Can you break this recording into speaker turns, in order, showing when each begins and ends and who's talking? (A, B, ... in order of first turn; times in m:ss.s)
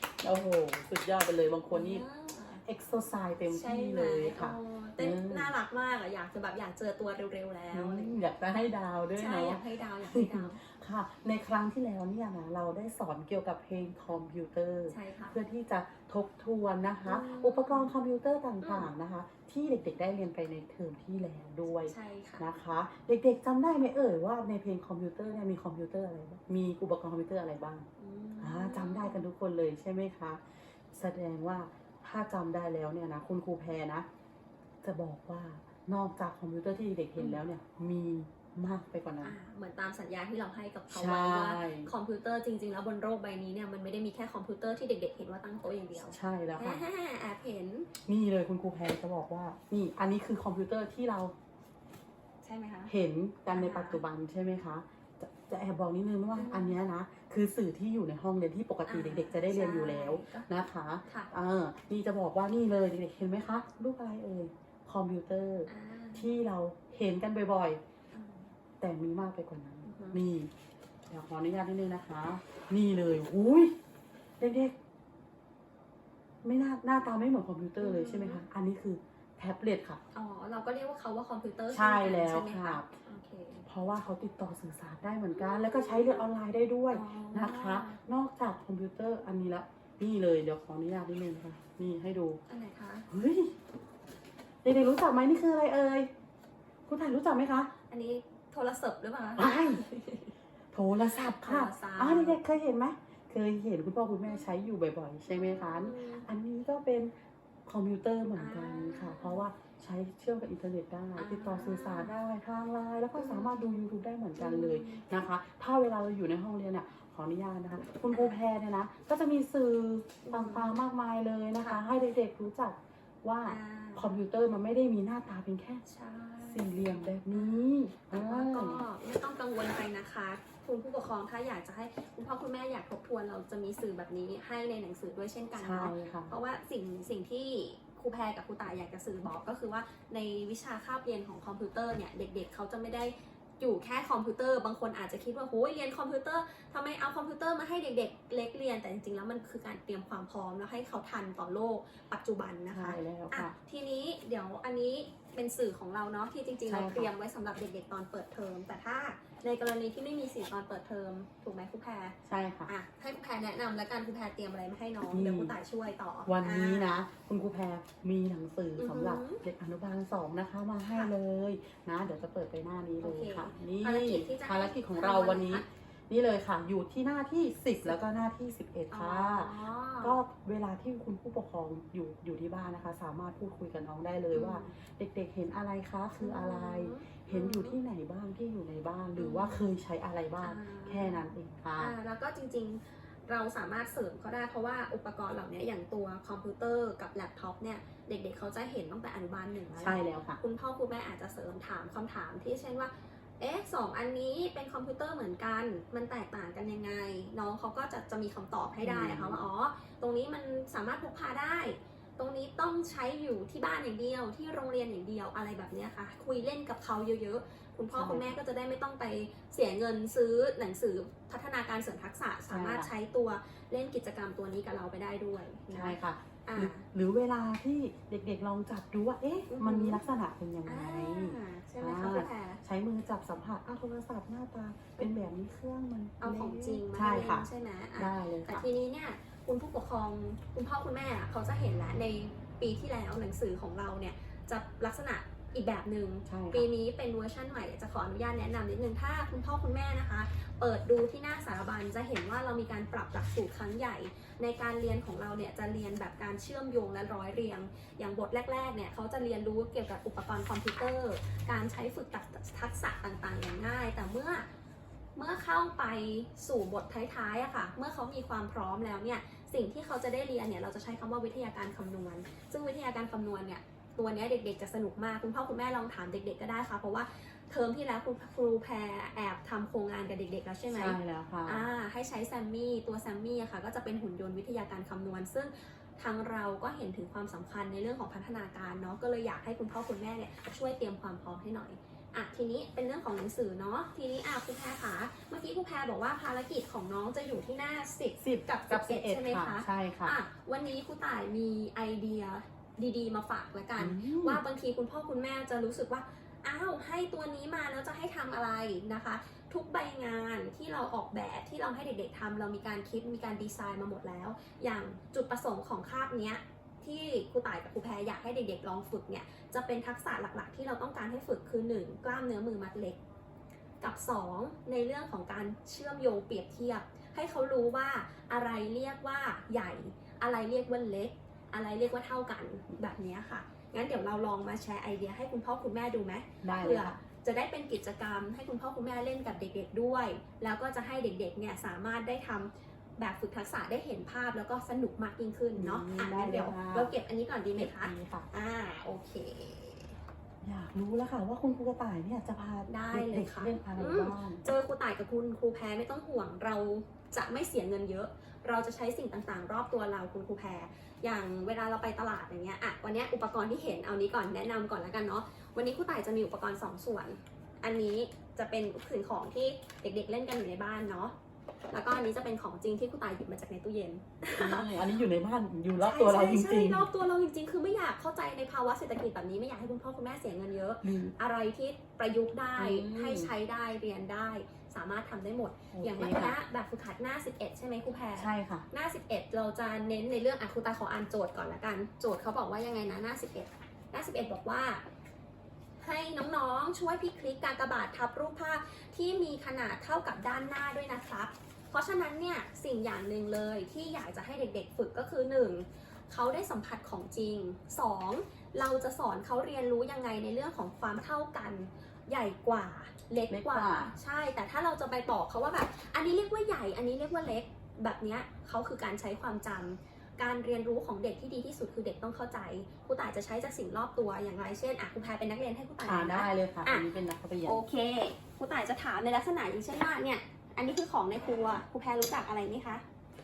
0:00.2-0:02.0 A
0:01.7-0:02.6 B
0:02.6-0:05.5 A
0:03.5-0:08.2 B
0:07.7-0:27.9 A
0:09.2-0:10.6 B
0:14.9-0:15.4 B
0:17.0-0:17.9 B
0:18.6-0:18.9 B
0:21.9-0:22.4 B
0:28.0-0:29.3 B
0:28.4-0:34.0 A
0:34.8-0:39.3 A
0:37.2-0:37.4 B
0:39.2-0:47.9 B
0:40.9-0:41.9 A
0:45.9-0:46.8 A
0:48.0-0:51.3 A
0:52.4-0:52.9 B
0:52.9-1:07.8 A
0:53.5-0:54.0 B
0:56.3-0:56.8 B
0:58.8-1:00.5 B
1:05.7-1:06.3 B
1:08.1-1:08.5 B
1:08.8-1:10.5 A
1:09.8-1:10.2 B
1:11.1-1:13.7 A
1:14.4-1:14.7 A
1:16.4-1:20.0 A
1:17.8-1:18.4 B
1:20.1-1:23.7 B
1:21.7-1:22.9 A
1:23.7-1:32.4 A
1:25.3-1:26.3 B
1:26.9-1:28.0 B
1:32.5-1:33.1 B
1:33.1-1:33.5 A
1:34.6-1:36.1 A
1:36.8-1:37.7 A
1:37.9-1:40.3 B
1:39.4-1:39.8 A
1:40.7-1:47.1 A
1:41.0-1:42.4 B
1:45.3-1:46.3 B
1:47.6-2:05.8 A
1:48.3-1:49.5 B
1:51.2-1:52.2 B
1:53.2-1:53.7 B
1:54.4-1:55.1 B
1:58.1-1:58.4 B
2:00.2-2:00.8 B
2:03.4-2:04.2 B
2:05.8-2:47.0 B
2:06.4-2:08.8 A
2:15.6-2:16.4 A
2:32.7-2:33.5 A
2:36.7-2:37.1 A
2:42.2-2:42.7 A
2:45.1-2:45.5 A
2:46.2-3:11.9 A
2:48.8-2:49.4 B
2:50.8-2:51.1 B
2:53.0-2:55.6 B
2:58.9-3:00.2 B
3:04.3-3:04.8 B
3:06.2-3:07.8 B
3:09.2-3:09.7 B
3:10.4-3:11.2 B
3:11.8-3:46.8 B
3:19.7-3:20.4 A
3:28.8-3:29.4 A
3:37.9-3:38.4 A
3:42.5-3:42.9 A
3:45.7-3:57.5 A
3:49.5-3:50.0 B
3:50.6-3:52.6 B
3:55.0-3:55.2 B
3:56.2-4:24.4 B
3:58.0-3:58.6 A
4:06.2-4:06.7 A
4:25.2-5:23.0 B
4:40.7-4:41.6 A
4:58.2-5:00.2 A
5:03.8-5:04.4 A
5:23.8-5:50.0 B
5:36.4-5:37.0 A
5:45.5-5:46.9 A
5:47.5-5:48.3 A
5:50.4-5:54.4 A
5:52.7-6:11.1 B
6:11.7-6:14.9 B
6:14.4-6:16.9 A
6:15.8-6:34.8 B
6:20.8-6:21.1 A
6:22.6-6:23.3 A
6:25.7-6:26.4 A
6:28.2-6:28.7 A
6:35.8-7:06.9 B
6:53.3-6:53.9 A
7:05.8-7:07.6 A
7:07.4-7:12.8 B